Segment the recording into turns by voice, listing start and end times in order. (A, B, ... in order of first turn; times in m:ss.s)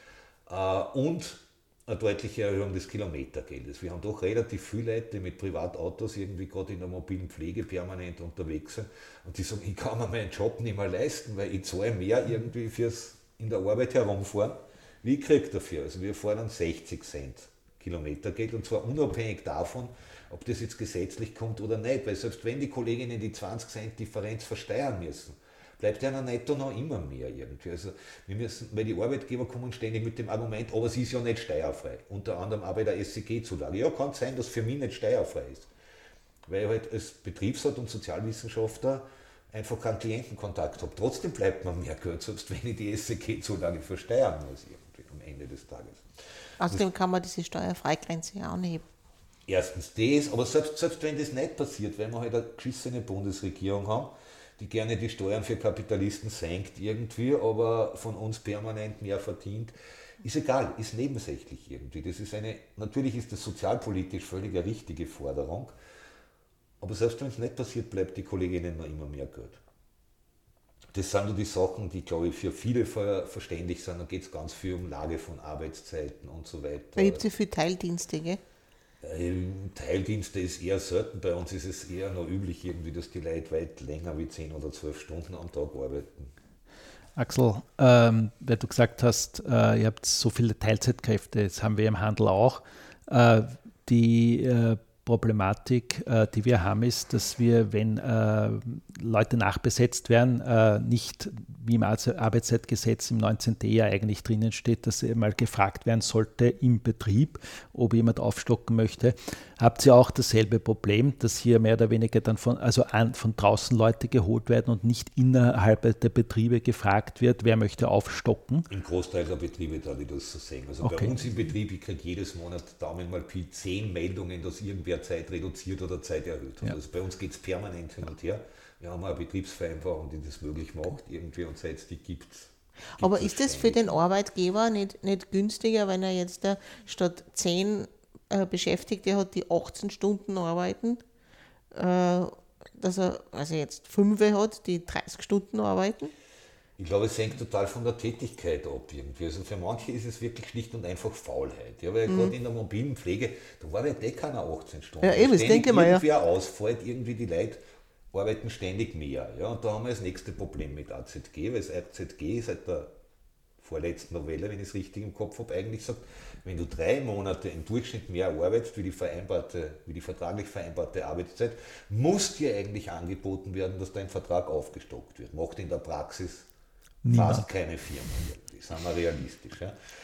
0:00.5-0:35.7 A
0:36.5-0:46.0 A
0:46.6-0:48.8 B
0:49.5-1:05.7 A
1:06.8-1:09.6 A
1:10.9-1:17.3 A
1:17.0-1:18.4 B
1:19.0-1:26.3 A
1:27.2-1:58.7 C
1:58.7-2:13.9 A
2:00.8-2:01.2 C
2:13.0-2:21.0 B
2:21.7-2:26.1 B
2:26.8-2:42.9 A
2:32.1-2:32.3 B
2:35.0-2:36.0 B
2:43.6-2:56.5 A
2:57.0-2:57.5 C
2:57.1-2:59.8 A